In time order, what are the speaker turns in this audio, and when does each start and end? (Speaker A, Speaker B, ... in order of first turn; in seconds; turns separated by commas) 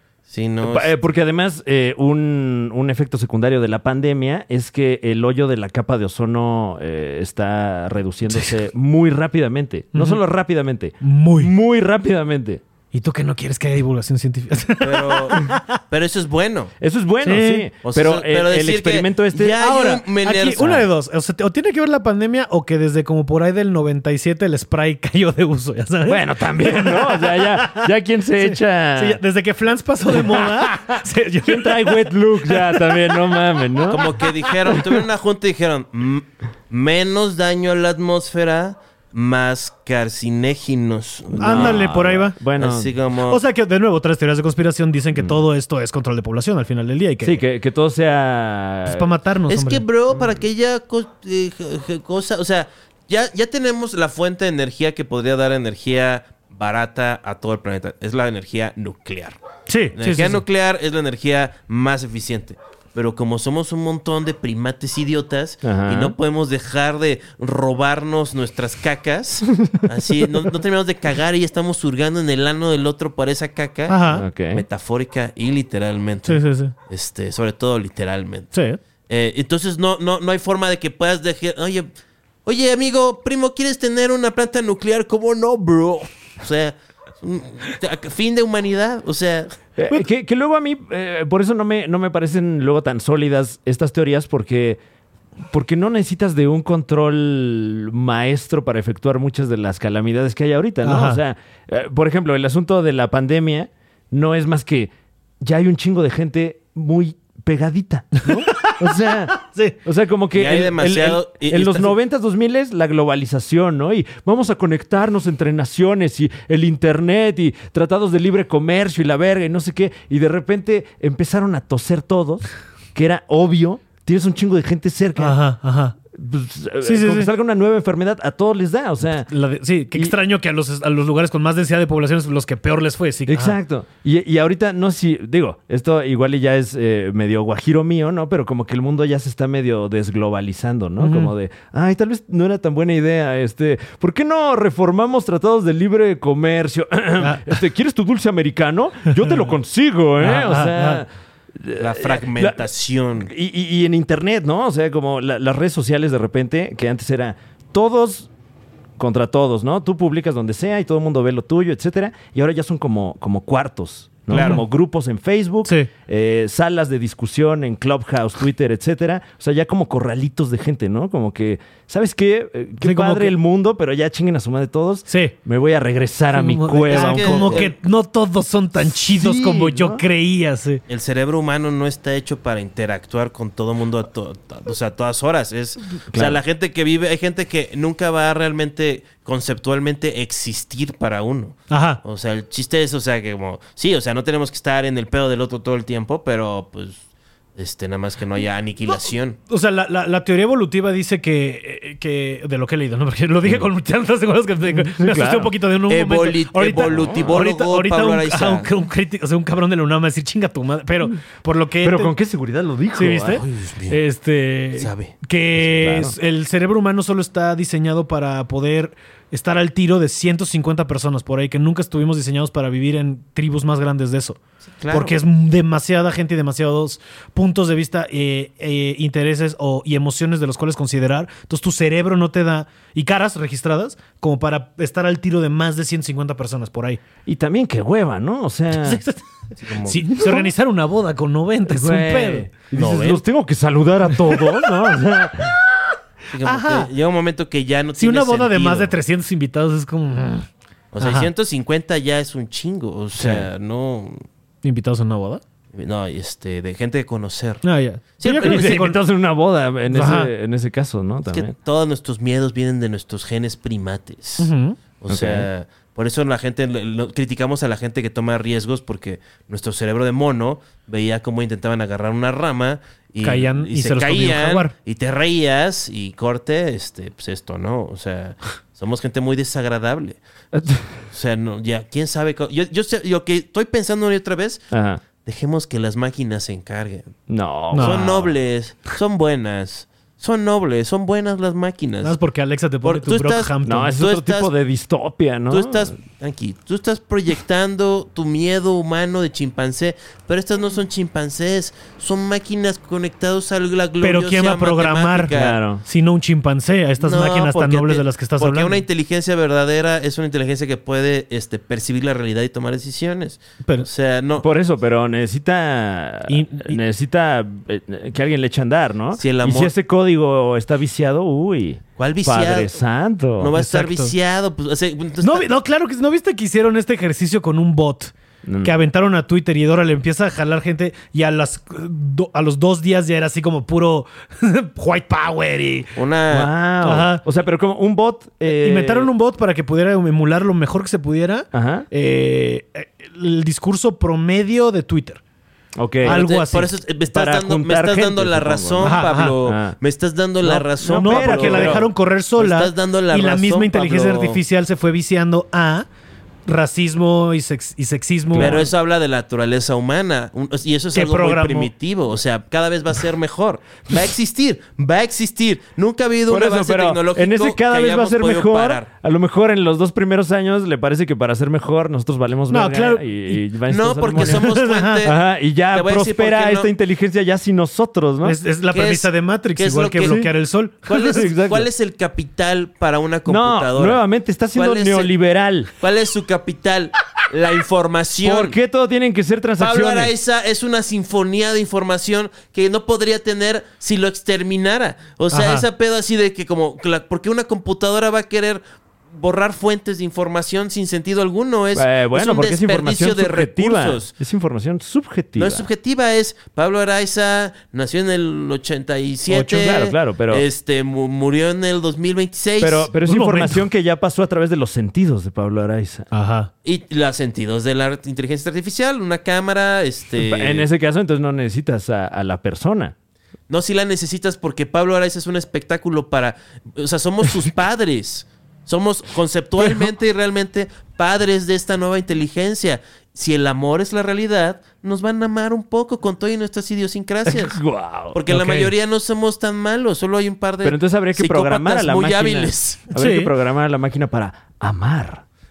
Speaker A: 0.3-0.9, Speaker B: 0.6-12.6, Speaker C: 9.9-10.2, Speaker C: 11.0-11.5, Speaker C: 12.9-15.8, Speaker A: 14.8-16.7, Speaker B: 16.8-19.6, Speaker C: 17.2-17.7, Speaker A: 17.8-20.8, Speaker C: 19.6-33.0, Speaker B: 26.1-29.2, Speaker B: 30.1-34.8, Speaker A: 33.8-41.9, Speaker B: 41.4-42.9, Speaker C: 41.4-42.4, Speaker A: 42.6-43.4, Speaker C: 43.3-47.4, Speaker B: 45.2-45.4, Speaker B: 47.2-49.1, Speaker C: 48.9-49.8, Speaker A: 49.5-59.4, Speaker C: 59.7-60.4, Speaker A: 60.0-78.5, Speaker B: 65.6-66.1, Speaker C: 73.9-74.3, Speaker B: 74.1-74.6, Speaker C: 76.2-76.7, Speaker C: 78.5-78.8, Speaker A: 79.1-81.9, Speaker A: 82.5-89.6, Speaker B: 89.8-94.8, Speaker B: 95.5-125.4, Speaker C: 100.8-101.2, Speaker C: 108.2-109.8, Speaker A: 110.3-111.9, Speaker C: 125.2-126.0, Speaker B: 126.1-129.3, Speaker C: 126.8-127.3, Speaker C: 129.3-133.6, Speaker B: 133.3-152.7, Speaker C: 141.0-141.3, Speaker C: 147.2-147.6, Speaker C: 149.2-149.5, Speaker C: 150.2-151.0, Speaker A: 151.8-153.3, Speaker B: 153.2-158.3, Speaker B: 159.0-177.7, Speaker A: 164.3-164.6, Speaker C: 164.3-164.6, Speaker C: 165.6-165.9, Speaker C: 172.8-173.3, Speaker C: 175.1-175.3, Speaker C: 176.3-180.8, Speaker A: 176.9-177.7, Speaker B: 178.8-180.0, Speaker A: 180.9-197.0, Speaker B: 186.1-186.4, Speaker C: 191.7-192.0, Speaker A: 197.6-199.4, Speaker C: 198.9-212.1, Speaker B: 204.7-205.5, Speaker A: 205.9-208.7, Speaker B: 206.9-207.3, Speaker B: 211.8-213.4, Speaker C: 212.9-224.4, Speaker A: 213.4-214.0, Speaker A: 214.8-215.1, Speaker B: 215.6-216.1, Speaker A: 224.8-225.2, Speaker C: 224.9-237.0, Speaker B: 237.3-239.0, Speaker C: 238.8-239.2, Speaker A: 239.6-240.2, Speaker C: 239.8-242.5, Speaker B: 240.2-240.5, Speaker B: 241.7-245.6, Speaker A: 242.7-243.2, Speaker A: 246.3-248.9, Speaker C: 246.4-246.9, Speaker C: 248.0-250.5, Speaker A: 250.9-254.2, Speaker C: 251.0-251.3, Speaker B: 253.2-253.5, Speaker C: 254.6-255.4, Speaker A: 255.7-257.6, Speaker C: 257.6-259.0, Speaker A: 258.2-258.9, Speaker B: 258.4-261.5, Speaker C: 259.9-260.3, Speaker A: 261.3-280.2, Speaker C: 264.4-264.8, Speaker B: 265.1-265.5, Speaker C: 273.2-274.7, Speaker B: 280.5-281.0, Speaker A: 280.9-284.6, Speaker B: 284.7-285.0, Speaker A: 285.2-287.2, Speaker B: 287.3-288.3, Speaker C: 287.7-288.0, Speaker A: 287.8-292.2, Speaker C: 292.0-293.9, Speaker A: 292.8-294.5, Speaker B: 293.6-295.9, Speaker A: 295.5-305.6, Speaker C: 304.0-305.3, Speaker B: 305.3-305.8, Speaker C: 305.8-308.8, Speaker A: 307.0-314.4, Speaker B: 314.4-323.6, Speaker C: 316.3-316.8, Speaker A: 319.2-319.7, Speaker A: 322.0-322.8, Speaker A: 323.4-325.5, Speaker C: 323.6-324.1, Speaker C: 325.2-335.9, Speaker B: 328.4-328.7, Speaker A: 335.9-336.5, Speaker B: 336.3-339.1, Speaker C: 336.8-337.2, Speaker C: 338.4-345.2, Speaker B: 341.5-341.9, Speaker B: 345.8-346.2, Speaker C: 346.0-346.7, Speaker A: 346.1-354.4, Speaker B: 347.1-349.8, Speaker C: 348.8-349.4, Speaker C: 350.5-355.9, Speaker B: 350.5-351.9, Speaker C: 356.5-358.7, Speaker B: 358.3-358.7, Speaker A: 358.4-368.9, Speaker C: 360.9-361.7, Speaker B: 366.3-378.4, Speaker C: 372.5-373.4, Speaker A: 373.7-376.7, Speaker C: 374.2-375.1, Speaker C: 378.2-381.3, Speaker A: 378.7-380.2, Speaker B: 380.0-380.3, Speaker A: 380.9-384.0, Speaker B: 381.1-381.7, Speaker B: 383.3-385.7, Speaker A: 384.5-385.1, Speaker A: 385.8-388.6, Speaker B: 388.2-390.1, Speaker A: 389.6-398.6, Speaker C: 395.3-395.7, Speaker A: 399.1-404.1, Speaker B: 401.8-405.7, Speaker A: 405.4-412.9, Speaker B: 409.3-410.4, Speaker B: 412.6-416.1, Speaker C: 413.1-413.6, Speaker C: 416.1-416.5, Speaker A: 416.6-420.7, Speaker B: 420.2-422.9, Speaker A: 423.5-437.6, Speaker B: 437.3-438.2, Speaker A: 438.1-442.9, Speaker C: 438.3-438.7, Speaker B: 440.6-445.2, Speaker C: 442.9-443.3